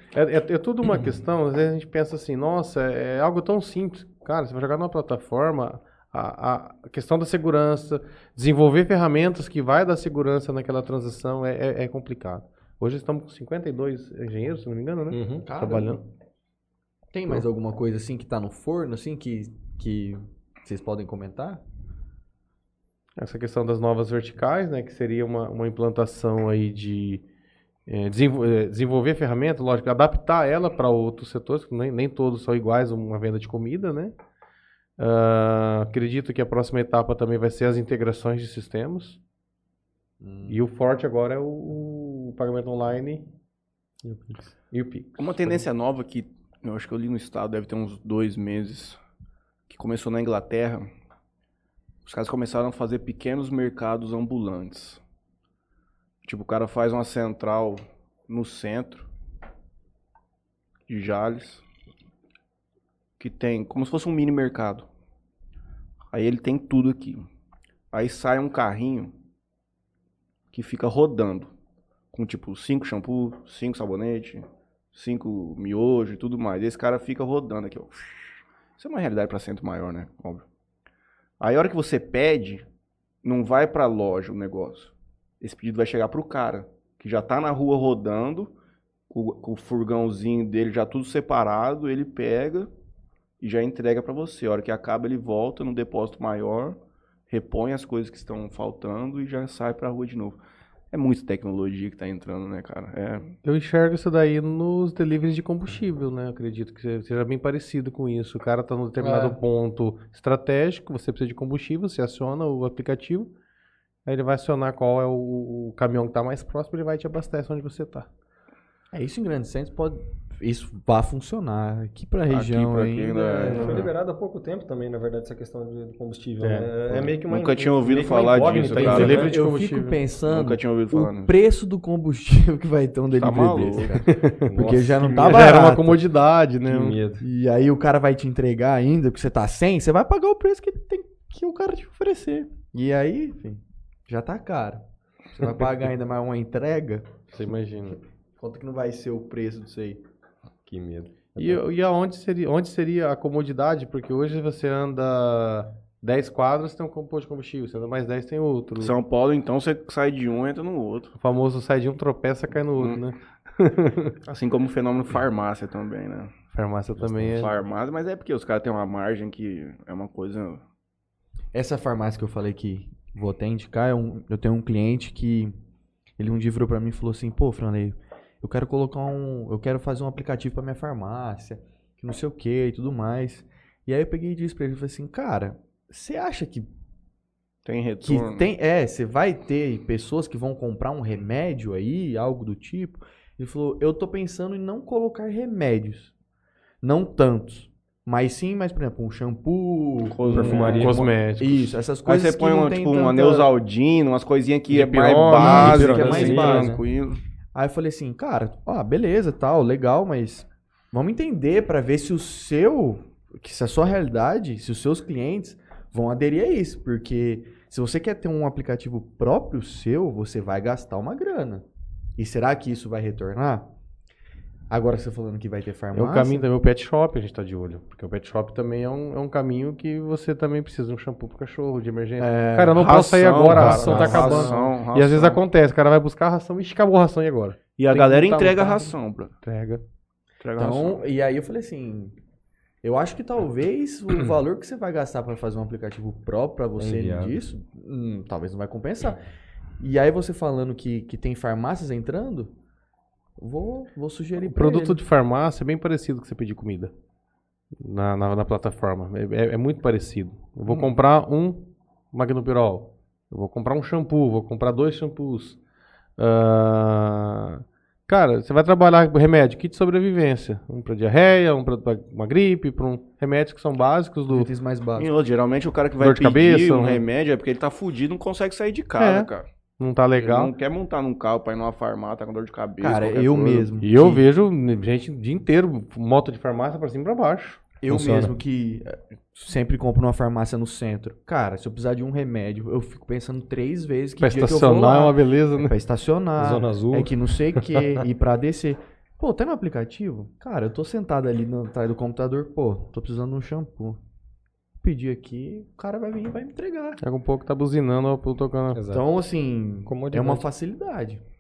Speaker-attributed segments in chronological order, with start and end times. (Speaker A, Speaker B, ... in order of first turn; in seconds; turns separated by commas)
Speaker A: 0.1-16.0, Speaker B: 15.1-15.4, Speaker C: 15.4-16.0, Speaker C: 17.1-21.6, Speaker A: 23.2-27.2, Speaker A: 27.9-34.1, Speaker A: 35.0-39.2, Speaker C: 40.2-40.6, Speaker A: 40.5-43.2, Speaker A: 44.0-45.6, Speaker D: 45.2-49.0, Speaker D: 49.7-50.9, Speaker D: 52.0-55.0, Speaker D: 56.2-59.1, Speaker D: 60.9-61.6, Speaker D: 63.2-64.9, Speaker D: 66.1-67.2, Speaker D: 67.9-69.1, Speaker D: 70.5-71.5, Speaker D: 72.1-80.4, Speaker D: 81.4-82.6, Speaker D: 83.2-88.5, Speaker D: 89.1-92.7, Speaker D: 93.4-96.8, Speaker D: 97.3-100.4, Speaker D: 100.9-103.3, Speaker A: 103.4-113.3, Speaker C: 109.0-109.4, Speaker A: 114.0-118.1, Speaker C: 118.9-123.9, Speaker D: 122.3-123.9, Speaker B: 123.3-129.3, Speaker A: 126.4-126.7, Speaker D: 127.0-129.2, Speaker A: 128.7-130.0, Speaker C: 128.9-136.0, Speaker D: 130.3-131.3, Speaker D: 133.1-134.0, Speaker A: 134.0-134.5, Speaker B: 134.4-135.4, Speaker A: 135.2-137.0, Speaker B: 136.7-137.2, Speaker C: 137.2-147.1, Speaker A: 147.3-148.0, Speaker C: 148.4-150.0, Speaker B: 150.7-151.6, Speaker A: 151.3-158.9, Speaker D: 158.8-161.1, Speaker A: 161.2-164.2, Speaker D: 164.2-166.3, Speaker A: 166.5-167.5, Speaker B: 167.0-167.5, Speaker D: 167.3-170.6, Speaker C: 171.5-175.5, Speaker C: 176.2-186.7, Speaker D: 187.6-188.5, Speaker C: 188.0-196.1, Speaker C: 196.8-203.5, Speaker D: 200.1-201.1, Speaker B: 200.3-201.0, Speaker A: 200.4-201.8, Speaker D: 202.1-207.2, Speaker A: 204.7-206.6, Speaker B: 204.9-206.8, Speaker C: 205.3-206.8, Speaker C: 207.5-221.7, Speaker C: 222.2-223.7, Speaker C: 224.7-226.4, Speaker A: 225.9-239.8, Speaker C: 232.2-232.8, Speaker D: 232.7-235.4, Speaker B: 233.5-234.5, Speaker D: 237.8-239.3, Speaker D: 240.4-241.0, Speaker C: 240.6-242.1, Speaker C: 242.8-249.2, Speaker B: 246.8-247.3, Speaker C: 249.8-252.5, Speaker C: 253.4-255.0, Speaker A: 254.4-256.9, Speaker A: 257.8-265.6, Speaker D: 260.7-260.9, Speaker A: 266.2-274.5, Speaker C: 274.3-275.1, Speaker D: 274.9-279.4, Speaker A: 276.0-277.0, Speaker A: 279.0-280.5, Speaker D: 280.2-283.7, Speaker C: 282.8-284.2, Speaker A: 283.8-287.6, Speaker C: 287.8-304.0, Speaker B: 287.9-288.3, Speaker A: 294.2-295.8, Speaker B: 296.4-298.0, Speaker C: 304.8-307.0, Speaker A: 307.0-308.8, Speaker B: 308.7-309.1, Speaker C: 308.9-311.2, Speaker B: 309.9-310.4